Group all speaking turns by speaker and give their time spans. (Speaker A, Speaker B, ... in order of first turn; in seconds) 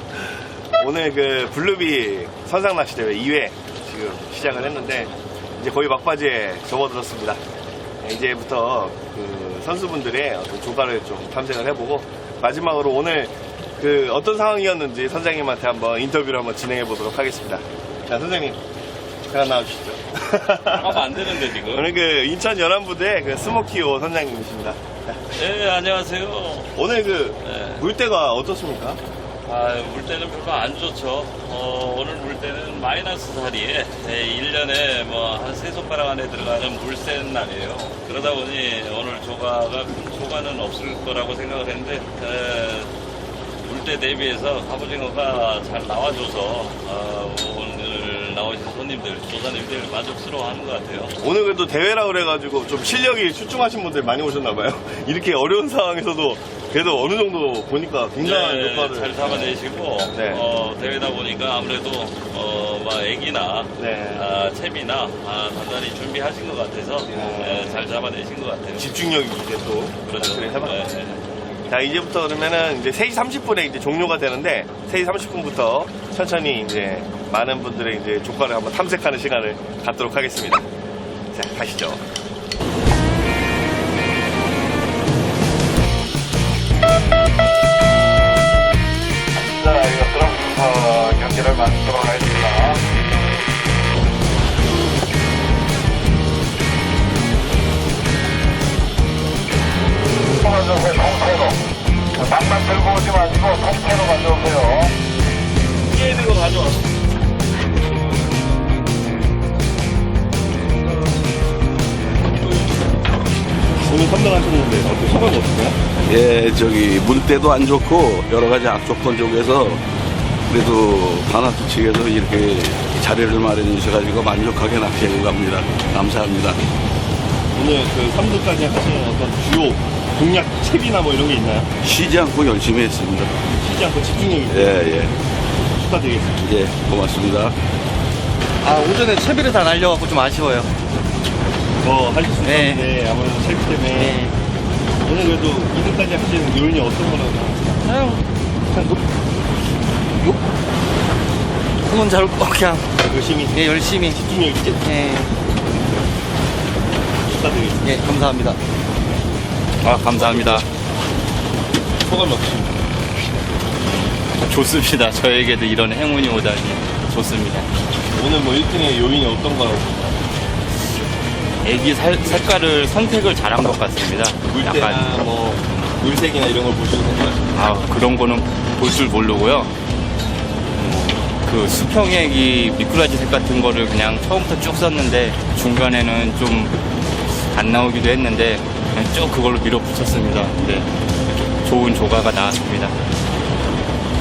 Speaker A: 0.1-7.4, 8.0-18.6, 19.3-25.2, 26.8-29.0, 51.2-59.6, 60.1-60.4, 63.8-64.3, 67.1-67.9, 68.8-70.9, 71.7-80.7, 81.3-82.0, 106.0-106.8, 113.8-115.8, 127.5-131.7, 133.5-135.0, 135.8-136.5, 141.8-144.3, 145.0-147.8, 153.0-154.9, 157.2-158.0, 162.0-162.8, 168.1-170.2, 174.5-177.9
Speaker B: 20.7-21.9, 25.3-26.8, 27.4-27.9, 29.5-42.9, 43.6-51.1, 58.2-68.9, 70.1-71.2
Speaker C: 116.1-119.8, 120.5-126.7, 131.8-133.3, 134.5-135.1, 136.4-137.6
Speaker D: 138.6-140.7, 142.5-142.9, 144.0-144.3, 153.5-154.2, 154.8-155.3, 157.8-158.6
Speaker E: 152.0-152.8, 159.8-160.7, 164.5-167.7, 171.6-175.8, 177.5-179.7, 180.8-186.8, 187.4-190.9, 191.6-192.9